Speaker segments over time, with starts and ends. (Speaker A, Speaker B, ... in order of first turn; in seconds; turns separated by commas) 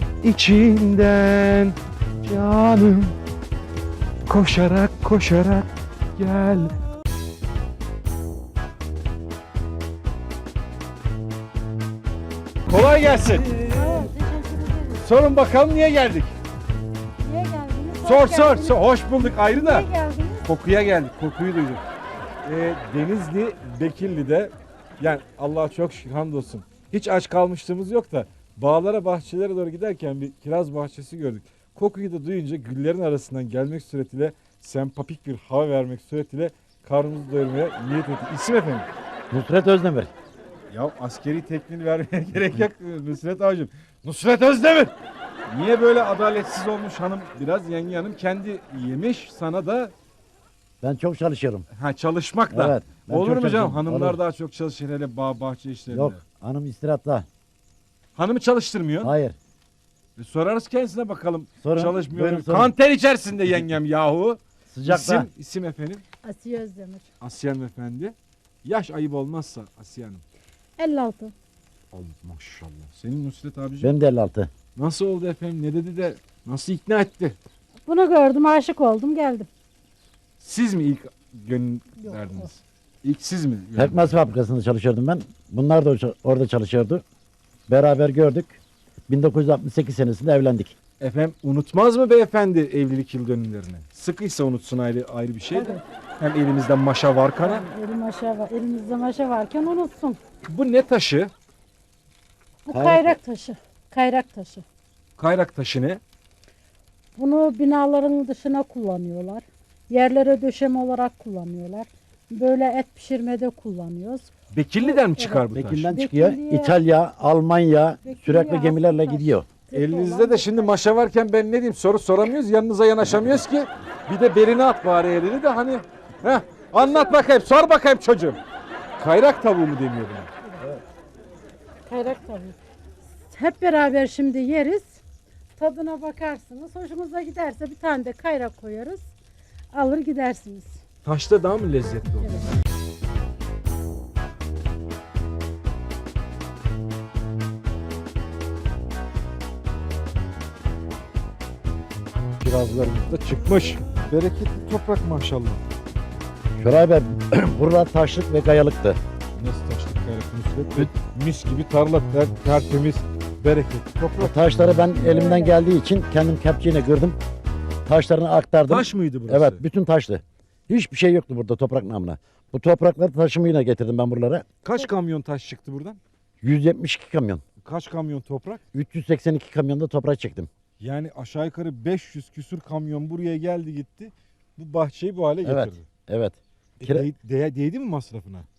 Speaker A: 0.2-3.1, Speaker A: 4.3-5.7, Speaker A: 6.2-6.7, Speaker A: 12.7-13.7, Speaker B: 13.6-15.1, Speaker A: 15.0-16.3, Speaker B: 17.2-20.4, Speaker A: 18.0-19.9, Speaker A: 20.4-21.8, Speaker A: 22.4-38.9, Speaker C: 39.3-40.1, Speaker A: 40.7-44.9, Speaker A: 45.5-49.9, Speaker C: 50.8-51.7, Speaker A: 51.7-56.2, Speaker C: 52.5-54.2, Speaker C: 55.9-57.3, Speaker A: 58.1-59.1, Speaker C: 59.0-59.4, Speaker A: 60.1-66.0, Speaker C: 61.6-62.7, Speaker C: 64.7-65.3, Speaker B: 66.2-67.1, Speaker A: 67.2-70.2, Speaker B: 70.8-71.3, Speaker A: 71.9-73.9, Speaker C: 73.8-74.5, Speaker A: 74.8-77.3, Speaker B: 77.8-79.5, Speaker A: 80.4-84.1, Speaker B: 82.0-82.4, Speaker C: 83.8-87.0, Speaker C: 87.7-90.8, Speaker A: 91.0-97.6, Speaker B: 95.5-95.8, Speaker B: 97.4-100.2, Speaker A: 100.5-101.3, Speaker B: 102.7-104.6, Speaker C: 102.7-103.2, Speaker A: 105.2-106.0, Speaker B: 107.2-116.8, Speaker A: 114.5-115.9, Speaker C: 115.5-119.5, Speaker B: 118.0-120.7, Speaker A: 119.7-128.4, Speaker B: 126.8-127.1, Speaker A: 129.0-130.3, Speaker B: 131.9-132.6, Speaker B: 133.3-135.0, Speaker B: 135.6-139.1, Speaker B: 139.7-140.8, Speaker A: 141.0-142.6, Speaker A: 152.4-155.6, Speaker C: 156.6-159.0, Speaker A: 159.4-164.5, Speaker C: 164.2-167.2, Speaker B: 164.9-165.6, Speaker C: 167.8-174.4, Speaker A: 168.7-169.6, Speaker A: 174.6-176.0, Speaker C: 176.4-177.4, Speaker A: 177.6-178.6, Speaker C: 178.7-180.5, Speaker A: 180.8-185.8, Speaker C: 185.4-187.1, Speaker A: 186.8-188.4